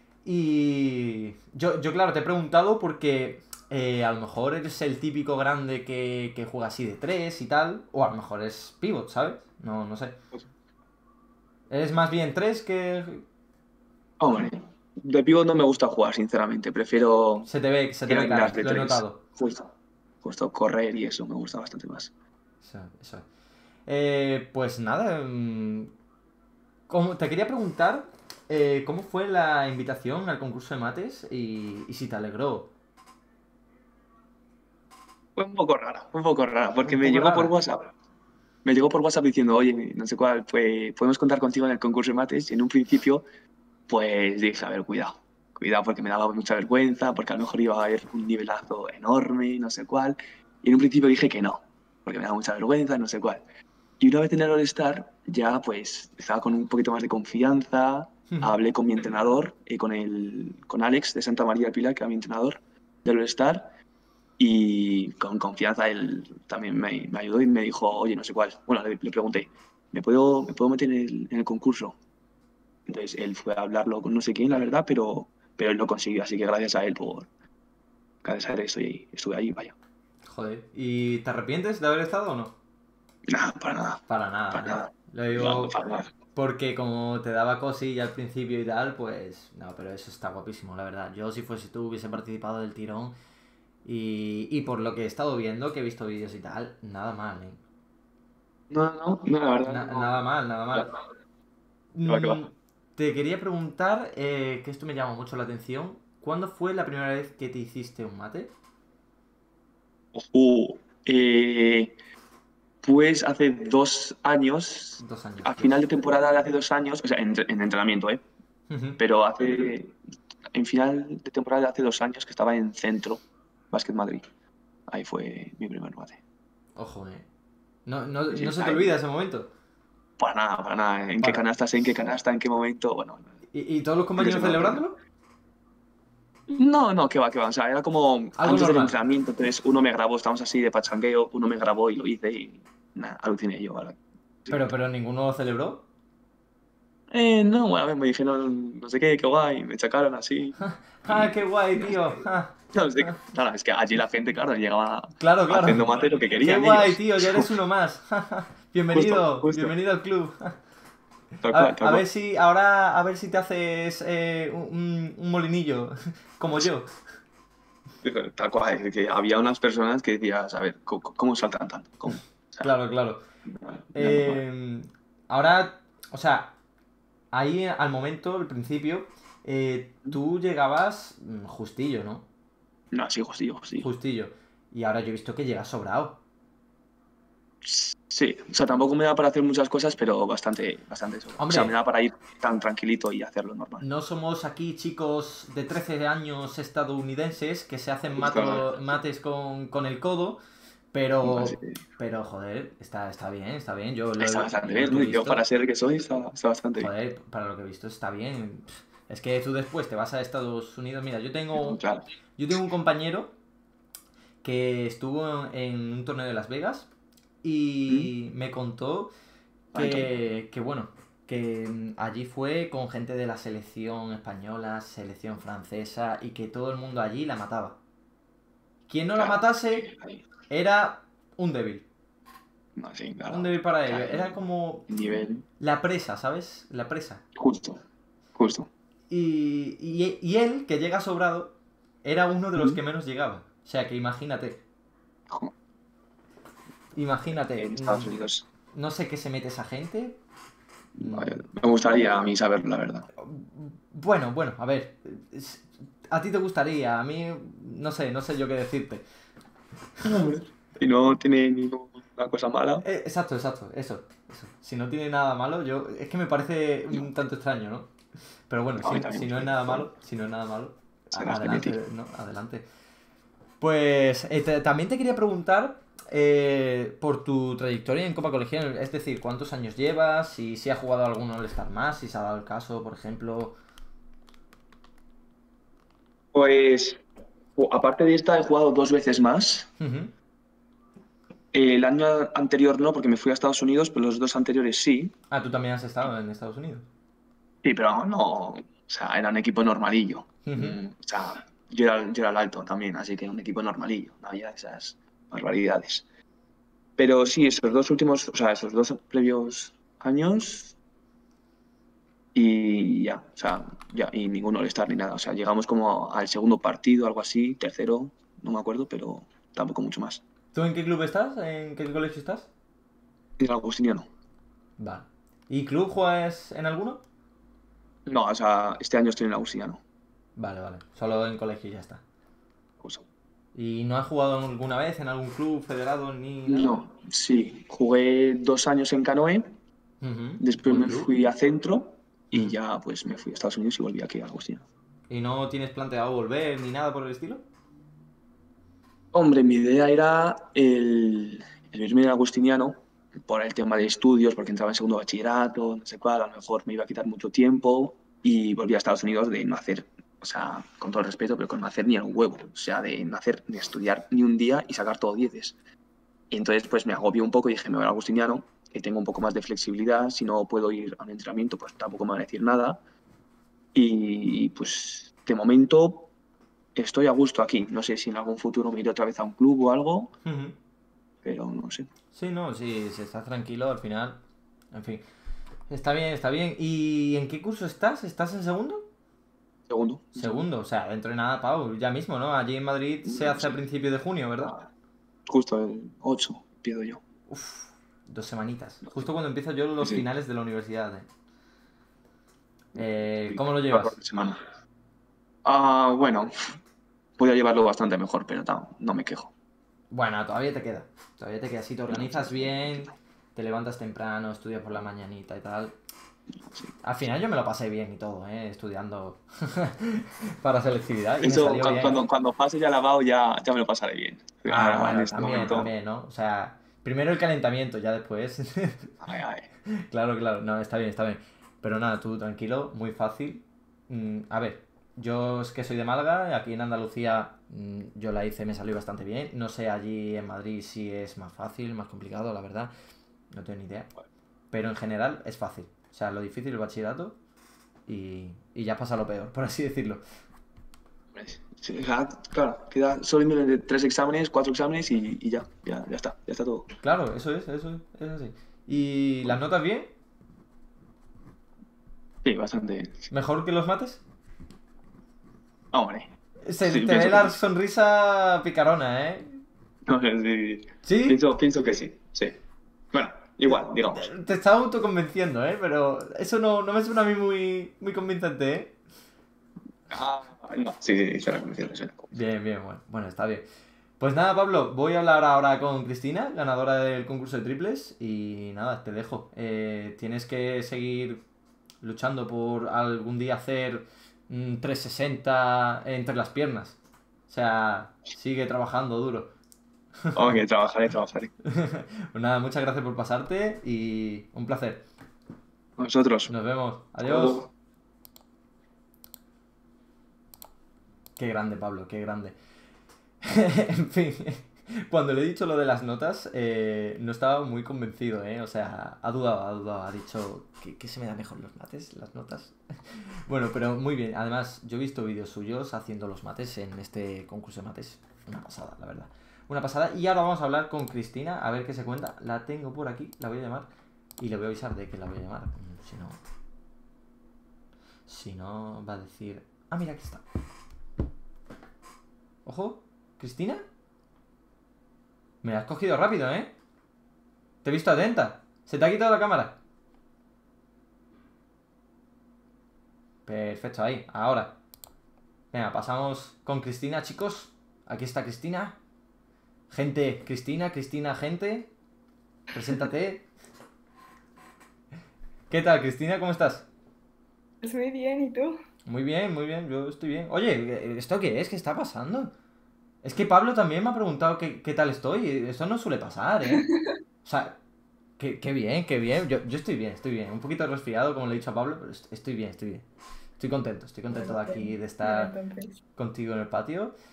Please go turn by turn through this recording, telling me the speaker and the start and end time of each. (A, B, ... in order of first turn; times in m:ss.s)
0:00.2-0:10.2 A
0:11.7-0:13.2 A
0:14.2-0:17.5 B
0:17.5-0:19.2 A
0:18.1-0:19.7 B
0:20.2-0:22.1 B
0:22.6-0:23.2 A
0:23.9-0:25.9 A
0:26.9-0:32.7 A
0:35.4-0:37.9 B
0:36.8-0:37.6 A
0:38.6-0:43.2 B
0:43.9-0:53.4 B
0:54.0-1:03.7 B
0:58.3-0:58.6 A
1:04.4-1:12.0 B
1:12.9-1:17.3 B
1:18.2-1:19.8 B
1:20.2-1:22.6 A
1:23.3-1:26.1 B
1:24.1-1:25.8 A
1:26.4-1:33.2 A
1:33.8-1:37.6 A
1:38.7-1:40.2 B
1:39.6-1:40.9 A
1:41.9-1:48.5 A
1:42.1-1:42.4 B
1:50.1-1:52.0 B
1:52.8-1:58.2 B
1:55.0-1:55.8 A
1:58.7-1:59.0 A
1:59.0-2:00.0 B
2:00.5-2:04.2 B
2:04.9-2:06.2 B
2:06.8-2:07.2 A
2:07.9-2:09.5 A
2:08.3-2:09.0 B
2:10.2-2:13.3 B
2:13.5-2:15.0 A
2:14.2-2:14.8 B
2:16.5-2:24.7 B
2:18.4-2:19.0 A
2:24.5-2:25.9 A
2:27.1-2:32.2 B
2:30.6-2:33.1 A
2:32.7-2:37.5 B
2:35.2-2:40.6 A
2:38.9-2:39.7 B
2:41.4-2:42.0 B
2:41.5-2:46.9 A
2:48.0-2:52.7 B
2:52.6-2:53.2 A
2:53.5-2:54.4 B
2:54.0-2:56.6 A
2:57.3-3:02.3 A
3:02.9-3:03.9 B
3:03.8-3:06.2 A
3:07.6-3:13.9 B
3:11.4-3:11.7 A
3:13.8-3:20.4 A
3:18.1-3:18.8 B
3:20.9-3:25.4 A
3:21.2-3:21.8 B
3:24.2-3:26.9 B
3:26.8-3:31.8 A
3:31.6-3:32.1 B
3:32.4-3:33.4 A
3:34.4-3:36.9 A
3:37.4-3:39.1 A
3:39.7-3:40.3 B
3:39.7-3:47.8 A
3:48.9-3:49.9 A
3:49.2-3:50.2 B
3:50.5-3:51.9 A
3:52.8-3:54.4 B
3:53.3-3:54.9 A
3:54.9-3:55.5 B
3:55.6-3:57.2 A
3:57.4-3:57.8 B
3:58.4-3:58.7 B
3:59.1-4:04.6 A
4:07.0-4:08.1 A
4:07.5-4:08.5 B
4:08.7-4:10.2 A
4:11.0-4:13.1 B
4:11.0-4:11.4 A
4:13.2-4:19.0 A
4:20.0-4:22.9 B
4:22.8-4:27.9 A
4:28.5-4:32.6 A
4:28.8-4:29.9 B
4:31.1-4:31.8 B
4:33.6-4:43.6 A
4:46.3-4:47.0 B
4:47.6-4:49.7 B
4:49.8-4:50.1 A
4:51.5-4:55.1 B
4:55.3-4:56.9 A
4:57.6-5:06.0 B
5:00.5-5:00.8 A
5:07.0-5:10.8 B
5:12.4-5:20.2 B
5:20.5-5:22.5 A
5:23.4-5:24.1 B
5:24.8-5:27.0 A
5:28.1-5:29.8 B
5:30.4-5:32.0 A
5:32.8-5:33.0 B
5:33.6-5:36.8 A
5:36.5-5:39.6 B
5:40.0-5:41.1 A
5:40.4-5:44.6 B
5:45.1-5:47.4 A
5:49.1-6:05.6 B
6:06.3-6:12.8 B
6:13.7-6:16.1 B
6:16.8-6:20.1 B
6:20.2-6:20.6 A
6:21.2-6:21.9 B
6:22.1-6:24.2 A
6:24.7-6:25.0 A
6:25.7-6:28.8 A
6:29.7-6:30.4 B
6:30.2-6:34.5 A
6:33.0-6:33.6 B
6:35.3-6:37.0 B
6:37.3-6:41.1 A
6:39.8-6:40.1 B
6:42.8-6:44.0 A
6:42.8-6:44.4 B
6:45.4-6:46.6 B
6:47.2-6:49.3 B
6:49.9-6:55.7 A
6:51.9-6:52.9 B
6:56.8-7:02.0 A
7:01.2-7:05.7 B
7:04.5-7:09.0 A
7:09.0-7:09.5 B
7:09.7-7:22.7 A
7:23.3-7:23.9 A
7:24.5-7:27.2 A
7:27.9-7:30.0 A
7:31.1-7:36.7 B
7:36.8-7:39.9 A
7:42.2-7:43.1 B
7:43.1-7:44.0 A
7:45.7-7:46.1 B
7:46.4-7:49.4 A
7:46.6-7:47.4 B
7:49.9-7:52.4 B
7:50.8-7:51.2 A
7:52.9-7:54.1 B
7:53.5-7:58.8 A
7:59.9-8:02.2 B
8:02.1-8:03.5 A
8:04.0-8:11.2 A
8:11.8-8:19.3 A
8:20.0-8:20.4 A
8:20.1-8:21.3 B
8:21.4-8:24.8 A
8:25.8-8:26.3 B
8:26.3-8:27.5 A
8:27.0-8:27.5 B
8:31.2-8:32.4 A
8:33.2-8:53.7 A
8:54.2-8:56.2 A
8:58.1-9:00.2 A
9:02.4-9:03.6 A
9:05.4-9:06.5 A
9:07.6-9:09.6 A
9:13.2-9:14.6 A
9:15.5-9:18.8 A
9:19.7-9:21.7 A
9:22.5-9:23.3 A
9:25.5-9:26.7 A
9:27.6-9:28.6 C
9:28.9-9:32.3 A
9:33.0-9:36.7 A
9:37.2-9:37.6 A
9:38.2-9:42.9 A
9:43.4-9:45.3 A
9:44.1-9:45.8 C
9:46.0-9:47.0 A